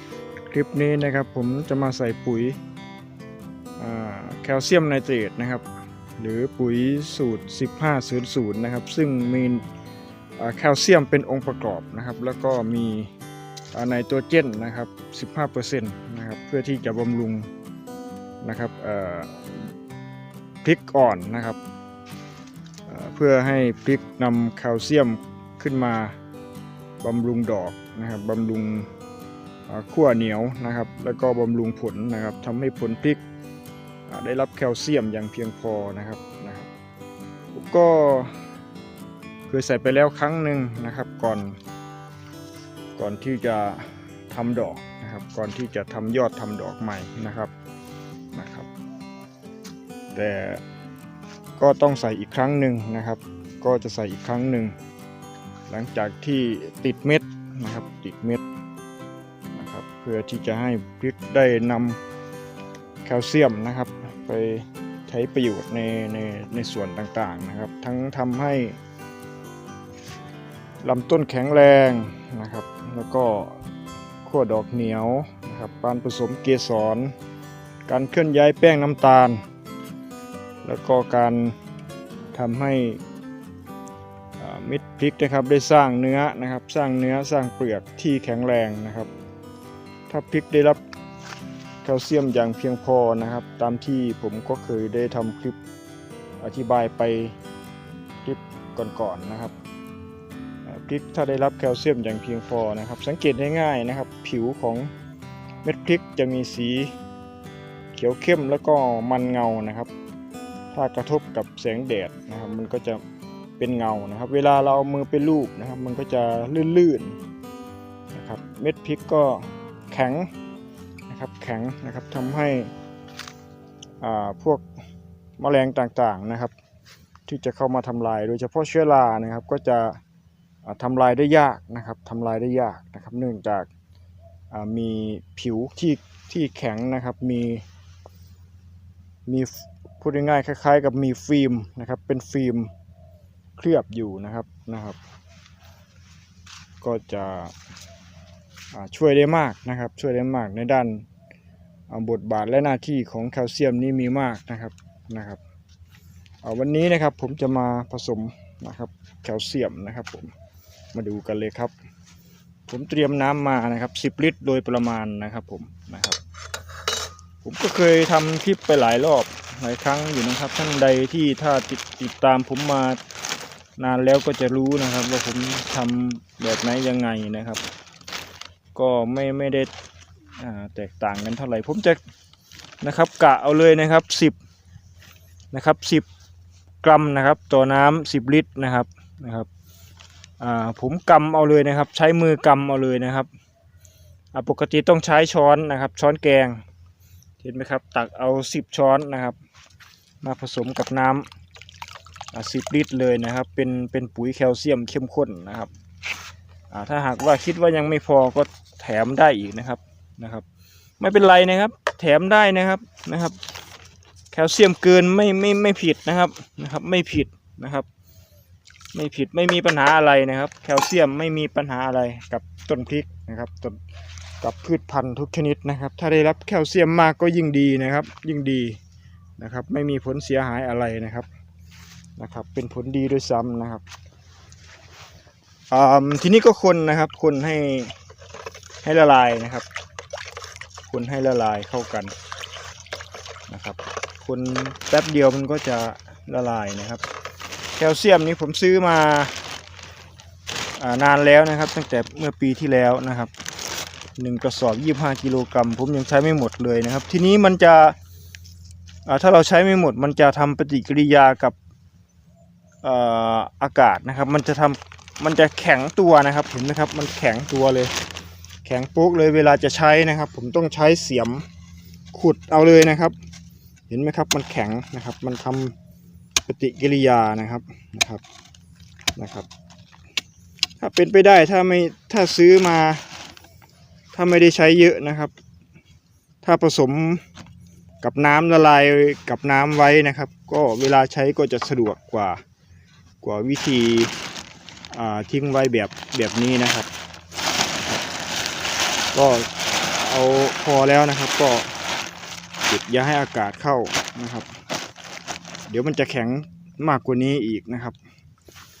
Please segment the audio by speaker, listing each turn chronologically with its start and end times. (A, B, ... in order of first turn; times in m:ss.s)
0:00.5-0:02.6 A
0:03.8-0:05.6 A
0:06.2-0:09.6 A
0:10.4-0:13.1 A
0:13.7-0:17.5 A
0:18.4-0:19.5 A
0:20.6-0:21.6 A
0:22.9-0:26.2 A
0:27.0-0:28.9 A
0:29.7-0:33.2 A
0:34.1-0:36.7 A
0:37.5-0:38.3 A
0:39.5-0:41.6 A
0:43.0-0:47.5 A
0:48.3-0:48.7 A
0:50.1-0:50.6 A
0:51.6-0:54.7 A
0:55.7-0:58.4 A
0:59.5-1:02.0 A
1:03.0-1:08.8 A
1:10.8-1:13.6 A
1:14.2-1:17.1 A
1:17.9-1:19.4 A
1:20.6-1:21.5 A
1:22.3-1:23.0 A
1:24.4-1:29.1 A
1:30.1-1:30.8 A
1:31.8-1:35.6 A
1:36.4-1:37.3 A
1:38.2-1:39.5 A
1:40.6-1:44.9 A
1:45.6-1:46.9 A
1:47.9-1:49.9 A
1:50.7-1:53.0 A
1:53.6-1:57.2 A
1:58.1-2:00.3 A
2:01.1-2:02.7 A
2:04.0-2:04.6 A
2:05.4-2:06.5 A
2:07.2-2:10.0 A
2:10.6-2:13.7 A
2:14.5-2:17.6 A
2:19.3-2:22.7 A
2:23.6-2:25.0 A
2:26.8-2:27.5 A
2:28.7-2:31.0 A
2:31.9-2:35.4 A
2:36.4-2:40.3 A
2:40.9-2:41.7 A
2:42.7-2:46.2 A
2:47.4-2:53.0 A
2:53.8-2:57.6 A
2:58.7-2:59.7 A
3:00.4-3:02.0 A
3:02.8-3:04.4 A
3:05.5-3:06.1 A
3:06.8-3:09.5 A
3:10.4-3:13.3 A
3:14.3-3:16.6 A
3:17.4-3:19.4 A
3:20.2-3:21.2 A
3:22.3-3:25.7 A
3:26.7-3:30.4 A
3:31.0-3:33.4 A
3:34.3-3:37.8 A
3:38.9-3:43.8 A
3:44.4-3:48.8 A
3:49.4-3:51.3 A
3:52.2-3:53.8 A
3:55.7-3:57.9 A
3:58.8-3:59.6 A
4:00.9-4:02.1 A
4:03.5-4:07.0 A
4:07.8-4:09.3 A
4:10.8-4:13.3 A
4:14.2-4:18.0 A
4:19.0-4:21.6 A
4:22.8-4:27.9 A
4:28.6-4:31.4 A
4:32.1-4:33.2 A
4:33.9-4:35.7 A
4:36.5-4:38.2 A
4:39.2-4:39.5 A
4:40.8-4:43.0 A
4:44.1-4:45.3 A
4:46.4-4:47.2 A
4:48.0-4:52.4 A
4:53.2-4:54.2 A
4:54.9-4:56.9 A
4:59.1-5:01.7 A
5:02.6-5:04.5 A
5:05.7-5:08.0 A